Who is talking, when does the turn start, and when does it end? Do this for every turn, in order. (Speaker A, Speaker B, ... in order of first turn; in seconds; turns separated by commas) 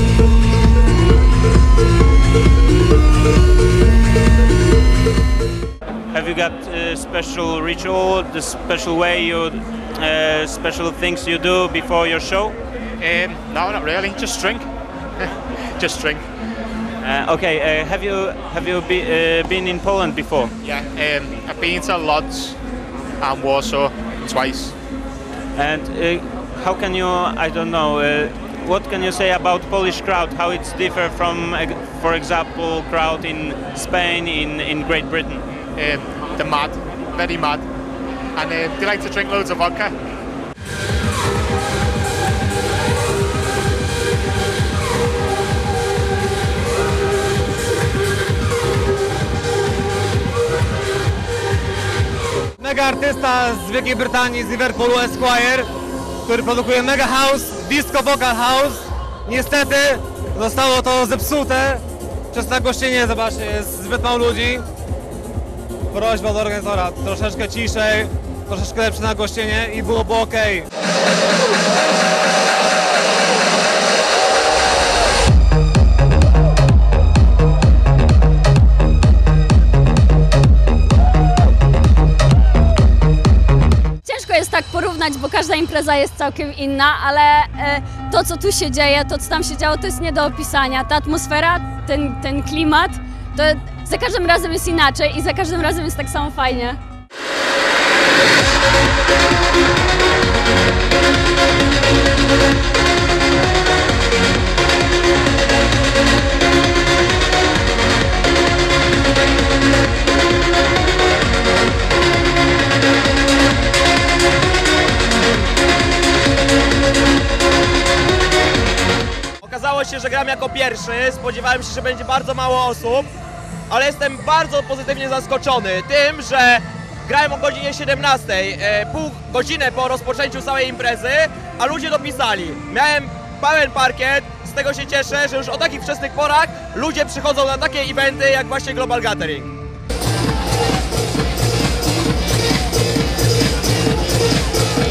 Speaker A: 6.1-12.5, Speaker B: 13.0-14.7, Speaker B: 15.8-16.2, Speaker A: 17.0-20.5, Speaker B: 20.6-22.6, Speaker B: 23.2-24.7, Speaker A: 25.6-35.4, Speaker B: 35.8-37.6, Speaker B: 38.4-39.9, Speaker C: 52.6-55.7, Speaker C: 56.2-61.8, Speaker C: 62.3-64.6, Speaker C: 65.9-70.7, Speaker D: 84.0-96.8, Speaker E: 119.4-123.1, Speaker E: 123.7-139.5